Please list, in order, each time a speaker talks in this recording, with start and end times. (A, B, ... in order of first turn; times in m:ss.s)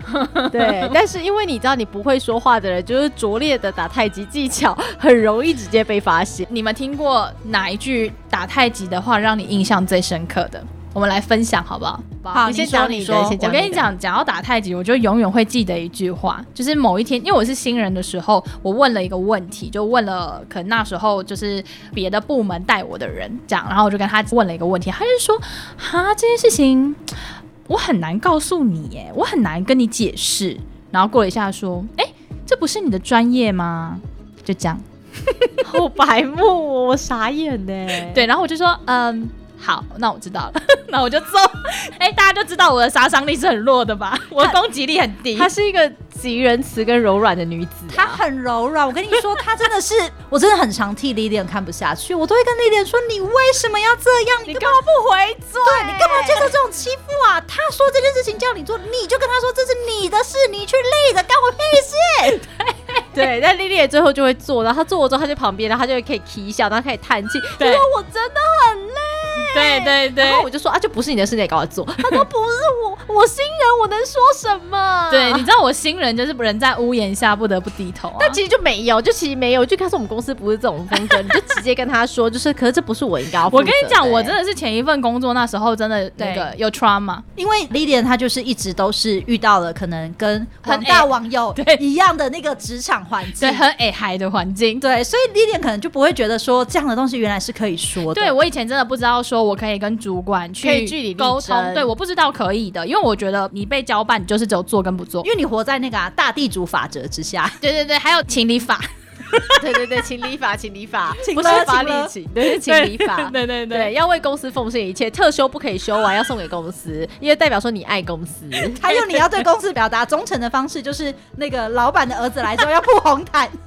0:00.1-0:00.9 A
0:00.5-0:06.4 B
0:06.5-0:12.4 A
0:12.3-0:13.4 C
0:12.4-0:13.9 B
0:13.3-0:27.0 A
0:27.7-0:35.6 A
0:35.6-0:38.3 B
0:38.1-0:45.5 A
0:45.4-0:48.2 B
0:47.9-0:54.8 C
0:54.5-0:56.5 B
0:55.6-1:02.4 C
1:02.6-1:03.0 A
1:03.1-1:15.5 B
1:07.6-1:07.9 A
1:09.5-1:10.5 A
1:15.1-1:18.4 A
1:18.2-1:24.4 B
1:23.5-1:27.2 A
1:26.2-1:26.5 C
1:27.4-1:33.6 C
1:30.6-1:31.8 A
1:33.4-1:34.8 A
1:34.8-1:38.4 C
1:38.1-1:45.3 A
1:40.6-1:41.9 B
1:45.2-1:47.6 C
1:47.6-1:48.9 A
1:49.6-1:58.8 B
1:51.2-1:52.1 C
1:52.4-1:53.9 A
1:58.8-2:03.6 C
1:58.9-1:59.2 A